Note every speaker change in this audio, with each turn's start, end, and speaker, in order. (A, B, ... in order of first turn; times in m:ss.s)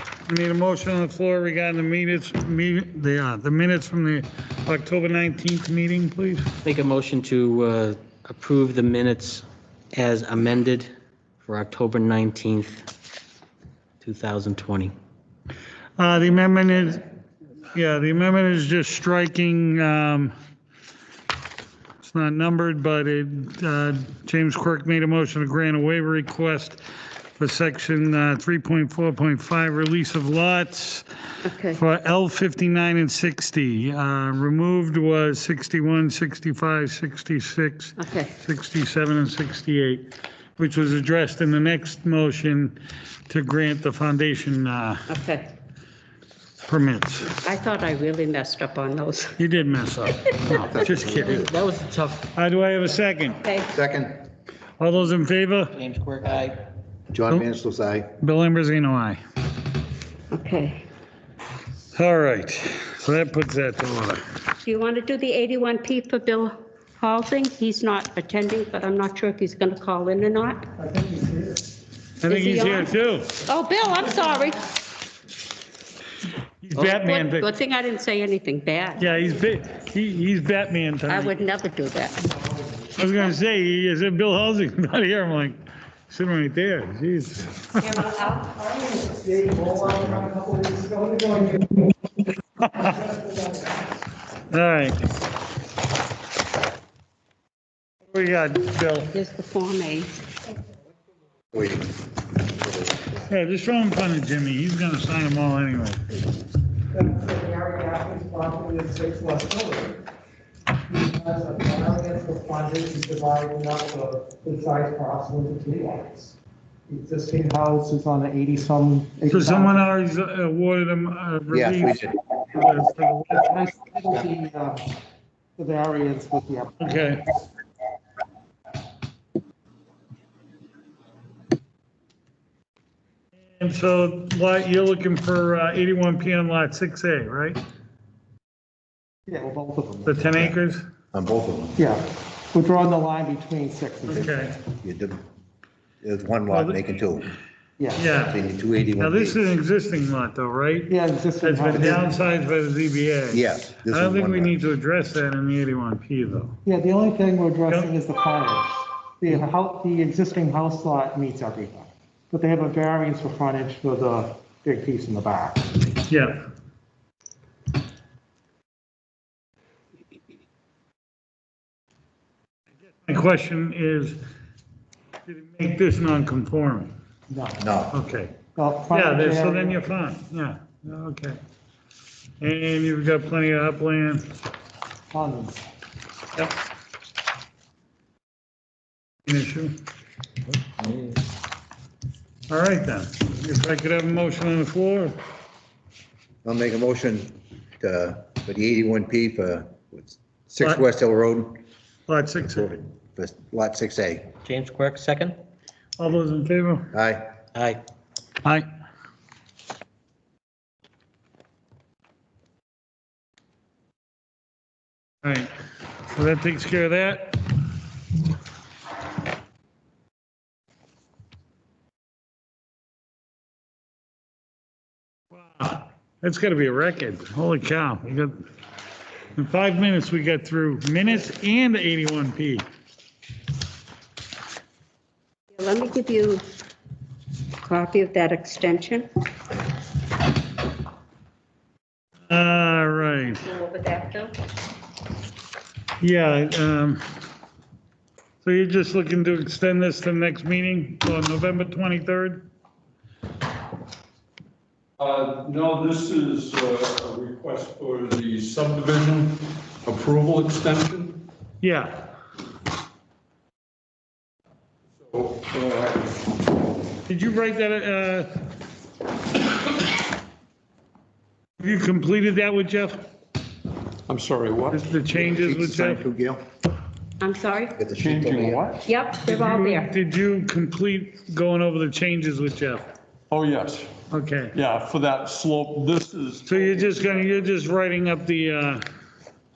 0:00.2-0:06.6 A
0:06.6-0:10.9 B
0:11.4-0:12.8 B
0:14.0-0:14.9 B
0:16.0-0:17.0 A
0:17.7-0:20.3 A
0:22.0-0:26.8 A
0:27.4-0:31.0 A
0:31.4-0:31.8 C
0:31.7-0:42.8 A
0:38.0-0:38.3 C
0:43.3-0:45.1 A
0:45.1-0:45.5 C
0:46.6-0:47.3 A
0:47.4-0:49.4 C
0:49.4-0:51.5 A
0:50.6-0:51.5 D
0:51.5-0:52.2 B
0:52.3-0:53.4 A
0:53.3-0:53.7 C
0:53.7-0:54.2 D
0:54.8-0:55.7 A
0:55.8-0:56.5 B
0:57.1-0:58.1 D
0:58.2-0:59.2 A
1:00.3-1:00.8 C
1:01.9-1:04.2 A
1:04.6-1:10.7 C
1:10.8-1:11.7 E
1:12.2-1:13.4 A
1:12.3-1:12.9 C
1:13.4-1:14.7 C
1:16.6-1:17.5 A
1:16.8-1:19.0 C
1:19.0-1:21.4 A
1:21.1-1:22.2 C
1:22.3-1:22.9 E
1:23.0-1:25.6 A
1:26.1-1:27.8 A
1:27.8-1:28.4 C
1:28.4-1:31.9 E
1:32.8-1:33.7 E
1:34.5-1:35.0 A
1:38.1-1:39.1 A
1:39.1-1:40.2 C
1:41.5-1:43.0 D
1:43.2-1:46.0 A
1:46.9-1:50.0 E
1:50.9-1:56.3 E
1:56.9-1:59.9 E
1:59.3-2:03.5 A
2:01.5-2:02.2 D
2:03.3-2:04.9 E
2:05.6-2:06.9 E
2:06.8-2:07.2 A
2:13.5-2:17.6 A
2:19.3-2:20.3 E
2:20.0-2:20.8 A
2:21.1-2:21.8 D
2:21.8-2:24.3 E
2:24.1-2:24.6 A
2:24.1-2:25.2 D
2:26.0-2:27.3 D
2:26.5-2:27.0 A
2:27.8-2:28.0 E
2:28.0-2:28.4 A
2:28.3-2:29.4 D
2:29.0-2:36.6 A
2:30.9-2:32.1 E
2:33.3-2:34.5 D
2:36.6-2:45.8 E
2:37.7-2:37.9 A
2:46.1-2:46.4 A
2:52.8-2:54.2 A
2:55.2-2:56.9 A
2:57.3-2:57.6 E
2:57.6-2:57.9 D
2:57.9-2:58.4 A
2:58.6-2:59.8 E
2:58.9-3:01.4 A
3:02.4-3:04.3 A
3:05.1-3:05.6 E
3:09.2-3:09.7 A
3:12.5-3:15.1 A
3:16.4-3:21.6 D
3:22.1-3:22.8 A
3:22.5-3:24.3 D
3:24.4-3:25.4 B
3:26.0-3:26.9 A
3:26.9-3:27.3 D
3:27.5-3:27.8 B
3:35.2-3:35.5 A
3:36.1-3:37.4 A
3:45.3-3:48.5 A
3:49.4-3:52.6 A
3:55.5-3:56.4 C
3:57.6-3:59.1 C
4:02.3-4:03.4 A
4:03.4-4:04.3 C
4:06.0-4:07.0 A
4:08.4-4:12.4 A
4:15.0-4:21.2 F
4:21.6-4:22.1 A
4:24.9-4:26.2 F
4:27.1-4:28.3 A
4:31.6-4:33.0 A
4:34.1-4:34.8 F
4:34.7-4:36.0 A
4:35.1-4:36.4 D
4:37.2-4:37.8 C
4:37.8-4:38.6 D
4:37.9-4:38.9 F
4:38.8-4:39.9 C
4:39.2-4:42.9 A
4:43.3-4:43.9 F
4:44.1-4:44.5 A
4:44.5-4:47.0 F
4:46.4-4:48.8 A